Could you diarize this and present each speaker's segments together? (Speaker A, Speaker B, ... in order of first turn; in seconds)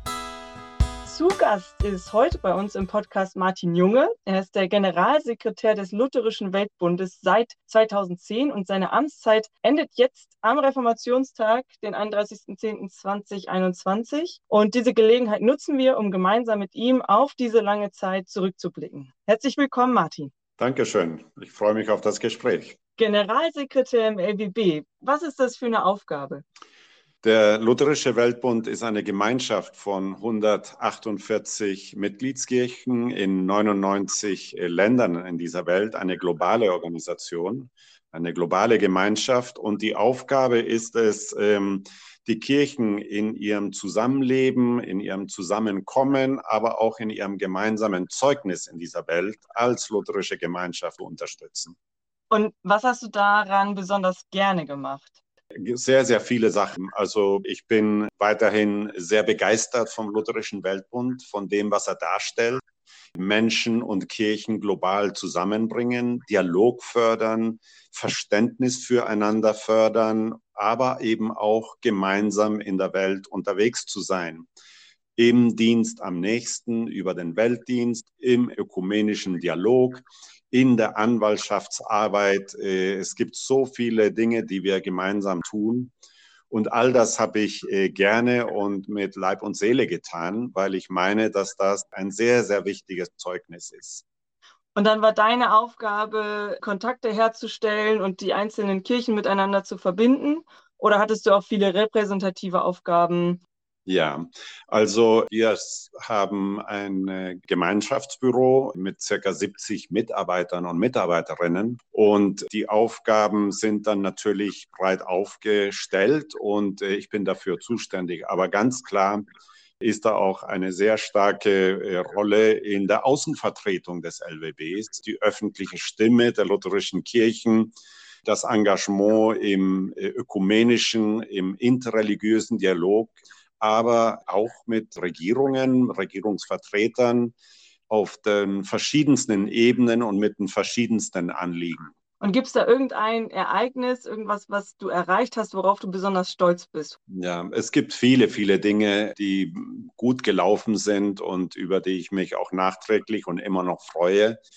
Speaker A: 1.0-20.3, 23.0-26.4, 52.3-55.2, 94.7-103.4, 142.2-147.0
Speaker B: 20.6-22.8, 27.2-51.8, 55.5-62.6, 63.1-74.5, 75.2-85.9, 86.5-94.0, 103.8-119.2, 119.8-127.7, 128.2-137.3, 137.9-141.9, 147.1-154.4